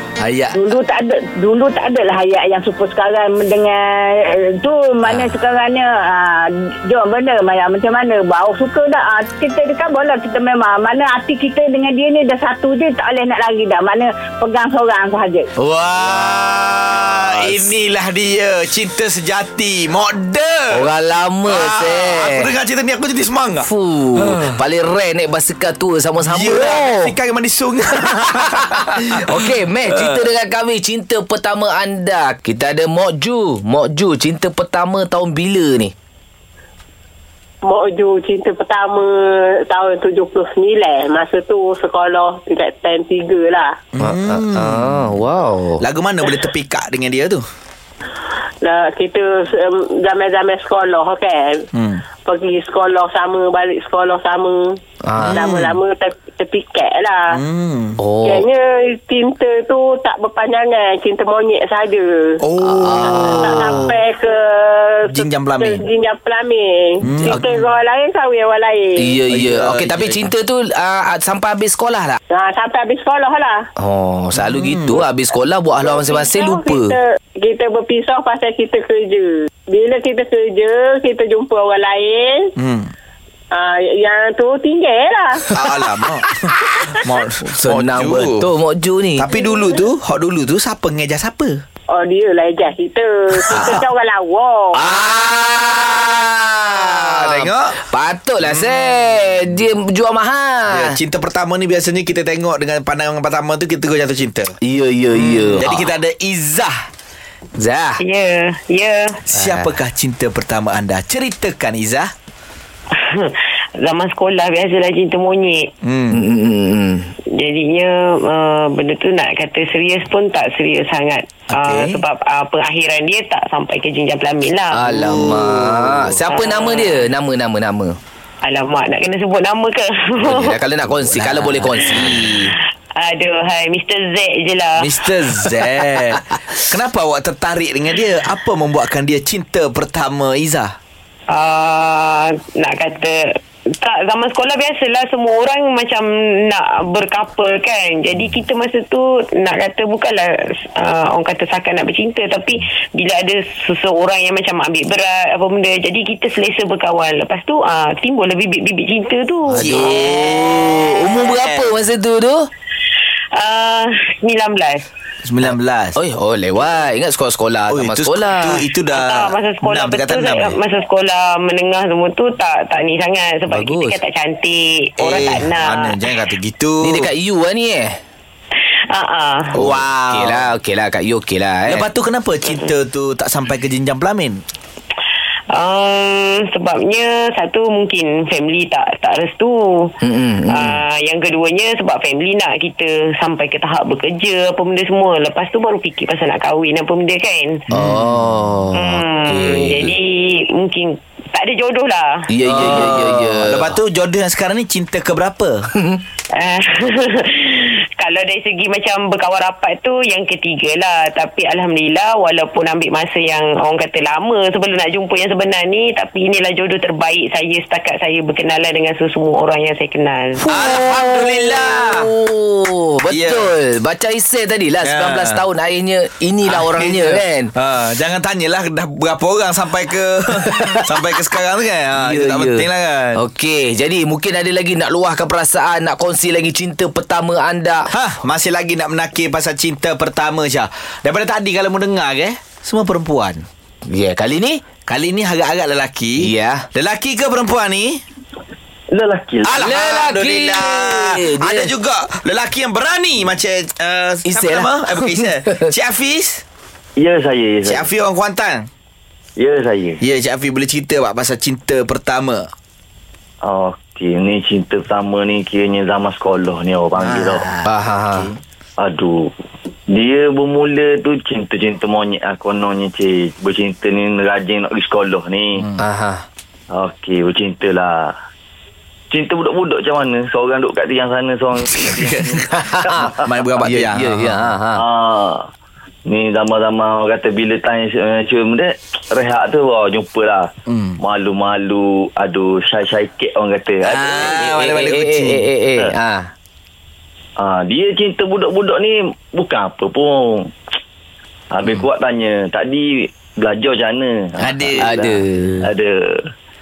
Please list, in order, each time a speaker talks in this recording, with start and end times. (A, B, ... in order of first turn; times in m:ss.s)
0:00.2-0:00.6 A
0:00.5-0:15.5 B
0:15.6-0:20.9 A
0:16.0-0:16.5 C
0:17.2-0:17.6 C
0:20.7-0:22.5 C
0:21.5-0:24.6 A
0:23.6-0:27.1 C
0:26.2-0:30.2 A
0:28.2-0:35.9 C
0:37.6-0:43.8 D
0:44.0-0:45.1 A
0:44.0-0:45.8 C
0:45.8-0:47.4 A
0:48.6-0:51.5 D
0:51.7-0:52.0 A
0:52.2-0:54.8 D
0:55.0-0:55.8 C
0:55.2-0:55.7 A
0:55.3-0:57.3 D
0:57.3-0:58.0 A
0:58.0-0:58.5 C
0:58.2-1:02.4 D
1:02.4-1:04.0 A
1:02.6-1:04.0 C
1:03.1-1:05.1 D
1:05.1-1:05.8 A
1:05.7-1:08.9 D
1:07.0-1:07.7 A
1:07.3-1:07.6 C
1:09.0-1:12.2 C
1:09.3-1:10.3 A
1:12.3-1:13.6 D
1:13.8-1:17.0 C
1:14.3-1:15.1 A
1:15.9-1:22.5 D
1:22.6-1:22.9 A
1:23.5-1:25.4 D
1:25.5-1:28.5 A
1:27.5-1:29.3 C
1:29.2-1:31.6 A
1:31.9-1:34.7 D
1:33.5-1:33.8 C
1:33.5-1:33.8 A
1:34.8-1:36.1 A
1:34.8-1:41.0 C
1:36.7-1:37.8 A
1:38.4-1:39.4 A
1:40.7-1:44.5 A
1:44.6-1:45.9 C
1:45.1-1:46.7 A
1:47.6-1:48.0 C
1:48.0-1:49.2 E
1:49.3-1:52.1 A
1:49.4-1:49.7 C
1:53.0-1:55.7 E
1:55.8-1:56.2 A
1:56.1-1:57.1 C
1:57.3-2:05.5 E
2:01.5-2:02.0 A
2:04.7-2:08.0 C
2:04.9-2:06.1 A
2:06.2-2:07.1 E
2:08.4-2:10.6 E
2:10.2-2:12.2 C
2:10.9-2:12.5 A
2:12.5-2:14.9 E
2:14.8-2:20.8 A
2:21.3-2:23.2 E
2:23.8-2:40.1 E
2:39.5-2:42.5 C
2:39.5-2:41.8 A
2:43.4-2:44.8 E
2:45.2-2:46.0 A
2:45.5-2:48.6 C
2:47.7-2:50.6 A
2:48.9-2:56.0 E
2:53.5-2:54.0 C
2:55.0-2:57.1 A
2:56.8-2:58.0 C
2:58.9-2:59.6 E
2:59.6-3:00.5 A
2:59.6-3:01.9 C
3:01.7-3:04.4 A
3:05.5-3:09.9 E
3:10.0-3:10.8 C
3:10.5-3:17.6 E
3:17.7-3:19.9 C
3:17.7-3:18.1 A
3:18.7-3:22.8 E
3:22.3-3:23.8 C
3:22.5-3:25.7 A
3:26.4-3:40.5 E
3:40.5-3:42.1 A
3:40.5-3:47.5 C
3:43.1-3:43.6 A
3:44.8-3:45.4 A
3:46.5-3:53.2 A
3:52.0-3:52.6 C
3:53.2-3:57.9 C
3:57.9-4:03.4 A
4:03.9-4:04.6 C
4:04.9-4:08.0 A
4:06.2-4:06.7 C
4:08.9-4:09.6 F
4:09.4-4:16.4 A
4:09.6-4:11.7 C
4:14.3-4:15.6 C
4:17.0-4:17.9 F
4:17.6-4:18.7 A
4:19.4-4:20.0 F
4:20.0-4:22.5 A
4:23.4-4:27.5 F
4:27.0-4:27.6 A
4:27.7-4:28.3 C
4:28.1-4:29.3 F
4:29.9-4:35.7 F
4:35.8-4:36.2 C
4:36.7-4:38.1 F
4:39.1-4:43.2 F
4:41.6-4:42.5 A
4:42.5-4:43.1 C
4:43.2-4:44.5 A
4:43.6-4:44.8 C
4:44.7-4:45.5 F
4:46.1-4:54.4 F
4:50.7-4:51.0 A
4:53.9-4:55.5 A
4:54.1-4:56.3 C
4:57.4-5:00.5 F
5:01.5-5:06.2 F
5:04.4-5:04.9 A
5:04.8-5:05.7 C